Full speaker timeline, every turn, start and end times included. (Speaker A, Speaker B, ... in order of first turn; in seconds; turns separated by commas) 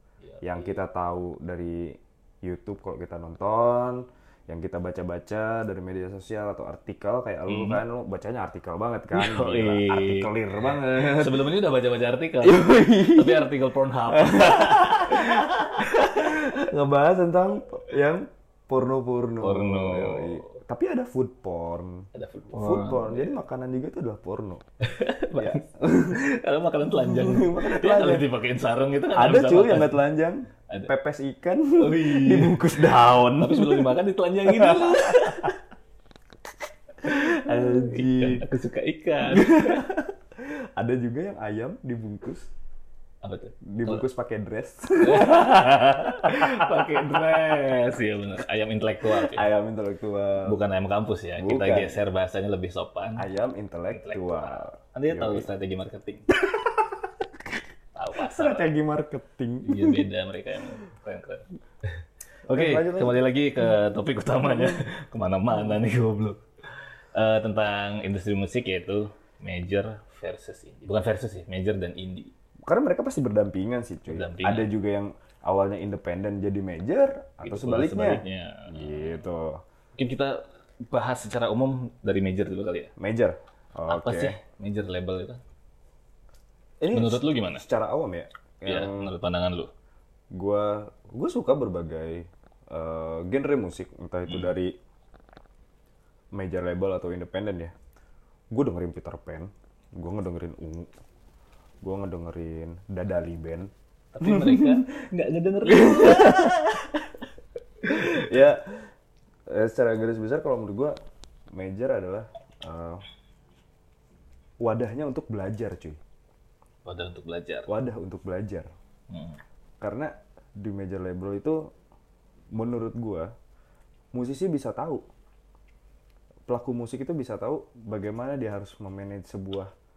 Speaker A: 0.2-0.8, Speaker B: 0.4-11.5, Speaker A: 7.5-7.8, Speaker A: 9.1-16.6, Speaker B: 12.4-13.5, Speaker B: 14.1-24.6, Speaker A: 19.4-20.6, Speaker A: 22.1-23.4, Speaker A: 24.8-30.0, Speaker B: 25.4-26.2, Speaker B: 26.9-28.3, Speaker B: 29.1-33.9, Speaker A: 31.8-35.6, Speaker B: 34.5-35.5, Speaker A: 37.0-39.9, Speaker B: 37.0-38.5, Speaker B: 39.2-42.5, Speaker A: 43.2-44.0, Speaker B: 43.6-47.7, Speaker A: 45.0-49.5, Speaker B: 49.1-50.6, Speaker A: 50.4-53.3, Speaker B: 51.4-52.0, Speaker B: 53.2-55.5, Speaker A: 53.9-56.3, Speaker B: 56.3-57.2, Speaker A: 58.0-58.7, Speaker B: 58.2-60.1, Speaker A: 59.6-72.3, Speaker B: 62.5-63.2, Speaker B: 64.4-64.8, Speaker B: 72.7-79.6, Speaker A: 74.1-74.7, Speaker A: 77.4-79.2, Speaker A: 80.0-82.9, Speaker B: 83.0-84.4, Speaker A: 83.9-85.4, Speaker B: 86.8-89.1, Speaker A: 86.9-87.7, Speaker A: 88.7-89.7, Speaker B: 90.3-94.8, Speaker B: 96.3-97.7, Speaker B: 98.5-100.9, Speaker B: 101.8-104.9, Speaker A: 104.1-107.1, Speaker B: 105.7-106.6, Speaker A: 107.8-108.2, Speaker B: 107.8-108.9, Speaker B: 109.5-111.0, Speaker B: 111.5-113.0, Speaker B: 114.6-116.0, Speaker A: 116.8-117.7, Speaker B: 117.7-118.7, Speaker A: 119.1-119.4, Speaker B: 119.8-121.7, Speaker B: 122.5-123.3, Speaker B: 124.1-125.0, Speaker B: 126.5-129.7